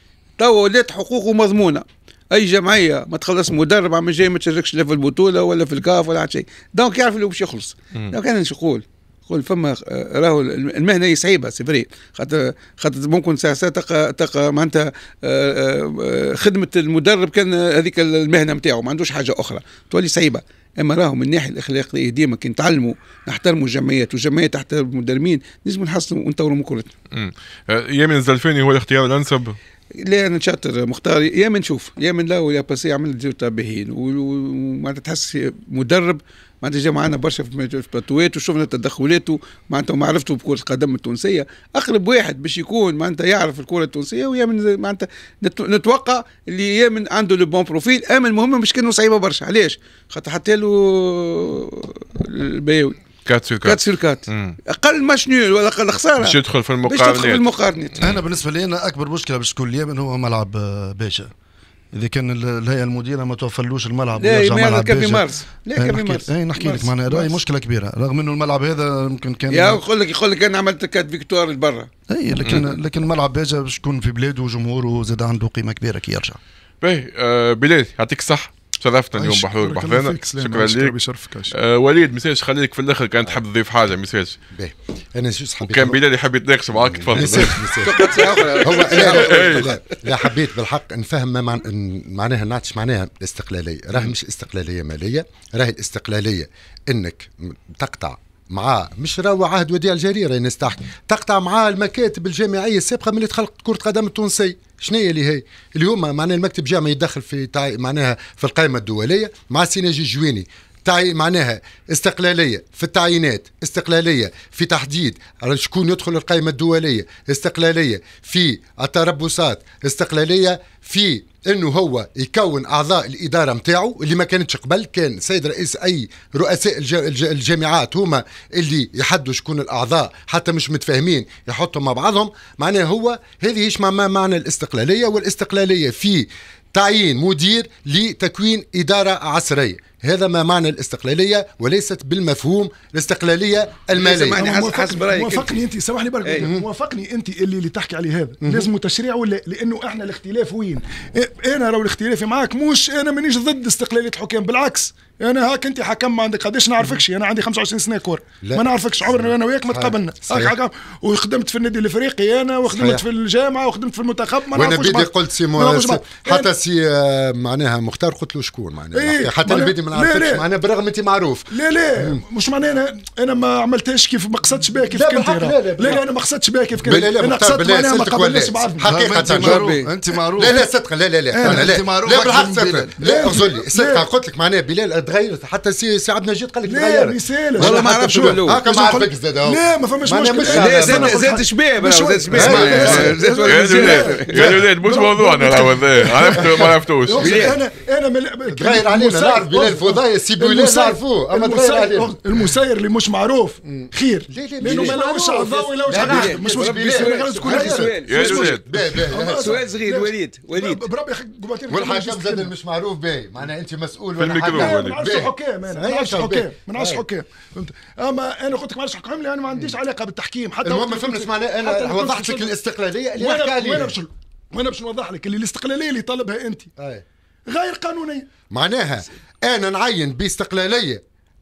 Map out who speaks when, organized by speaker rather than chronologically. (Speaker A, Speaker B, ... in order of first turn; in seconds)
Speaker A: 0.4-26.9, 30.0-53.0, 53.6-58.0, 64.2-67.3, 69.5-71.9, 87.8-90.0, 143.9-145.6, 146.2-146.5, 179.3-180.0, 187.6-188.7, 190.5-194.5, 197.2-197.6, 204.7-205.1, 206.1-208.6, 209.5-210.8
Speaker B: 27.1-29.6, 53.2-54.6, 56.2-57.5, 72.4-72.7, 76.8-80.9, 81.5-84.4, 85.6-88.2, 88.8-89.7, 192.8-197.3, 208.1-208.7, 214.2-215.0
Speaker C: 58.0-61.3, 61.9-69.8, 72.1-76.4, 178.9-180.6, 181.4-182.9
Speaker D: 79.2-81.5, 144.3-166.5, 168.9-170.4, 171.5-178.9, 181.3-181.7, 183.0-184.1, 186.7-208.0, 208.7-212.5, 214.5-222.6, 223.2-226.7, 227.5-228.3
Speaker E: 84.5-86.0, 86.8-144.5, 146.4-146.7, 148.4-148.7, 158.4-160.6, 162.7-163.0, 164.5-172.2, 174.9-176.0, 176.8-179.7, 180.4-191.2, 192.3-193.2, 197.2-197.5, 198.5-202.5, 203.6-209.6, 211.7-217.0, 219.5-219.8, 220.6-224.0, 226.8-227.1, 228.5-231.0